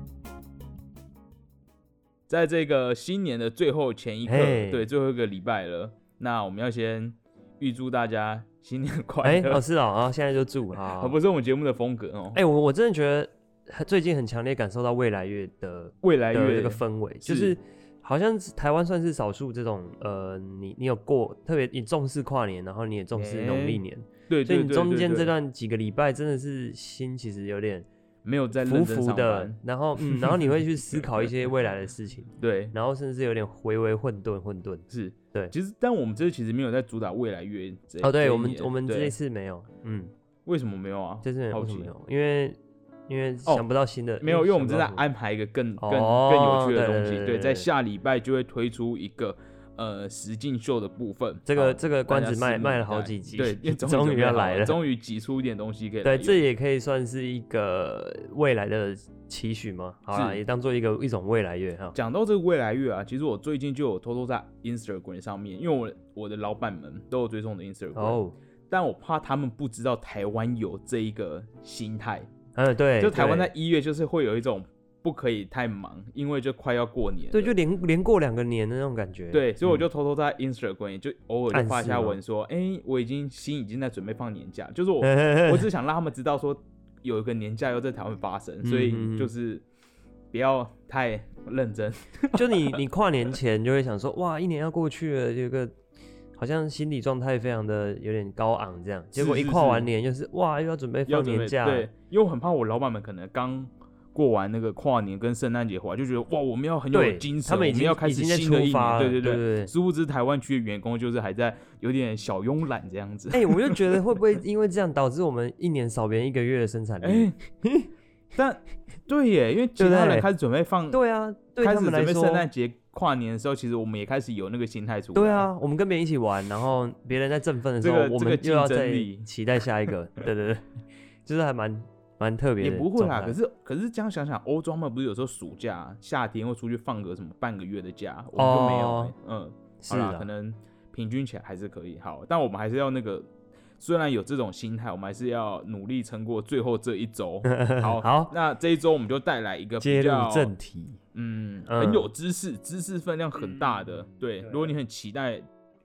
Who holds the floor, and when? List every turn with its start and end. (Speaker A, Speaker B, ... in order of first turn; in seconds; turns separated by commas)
Speaker A: 2.3-9.7, Speaker B: 4.3-4.8, Speaker B: 9.2-11.2, Speaker A: 10.8-12.4, Speaker B: 12.3-27.9, Speaker A: 16.0-17.6, Speaker A: 23.2-25.3, Speaker A: 28.2-31.5, Speaker B: 28.6-35.5, Speaker A: 32.4-32.8, Speaker A: 34.9-39.2, Speaker B: 38.0-40.1, Speaker A: 40.5-41.9, Speaker B: 41.2-45.0, Speaker A: 44.2-56.4, Speaker B: 45.8-47.7, Speaker B: 51.5-54.8, Speaker B: 56.0-62.0, Speaker A: 60.1-60.4, Speaker A: 61.9-72.3, Speaker B: 68.0-68.3, Speaker B: 72.5-73.5, Speaker A: 73.0-77.5, Speaker B: 77.3-79.8, Speaker A: 79.3-89.6, Speaker B: 81.5-82.2, Speaker B: 85.0-85.7, Speaker B: 88.6-89.3, Speaker A: 90.3-92.8, Speaker B: 92.3-95.7, Speaker B: 96.4-101.9, Speaker A: 99.2-99.9, Speaker A: 101.1-114.0, Speaker B: 106.9-109.7, Speaker B: 113.3-117.9, Speaker A: 117.0-117.4, Speaker A: 118.4-121.0, Speaker B: 119.8-120.3, Speaker B: 120.9-122.5, Speaker A: 121.6-125.5, Speaker B: 125.2-130.7, Speaker A: 127.8-129.3, Speaker B: 131.2-133.4, Speaker A: 132.6-150.5, Speaker B: 138.4-139.1, Speaker B: 139.8-140.3, Speaker B: 147.5-148.3, Speaker B: 149.8-151.0, Speaker A: 151.1-155.5, Speaker B: 151.7-152.1, Speaker B: 153.5-153.8, Speaker B: 154.4-154.7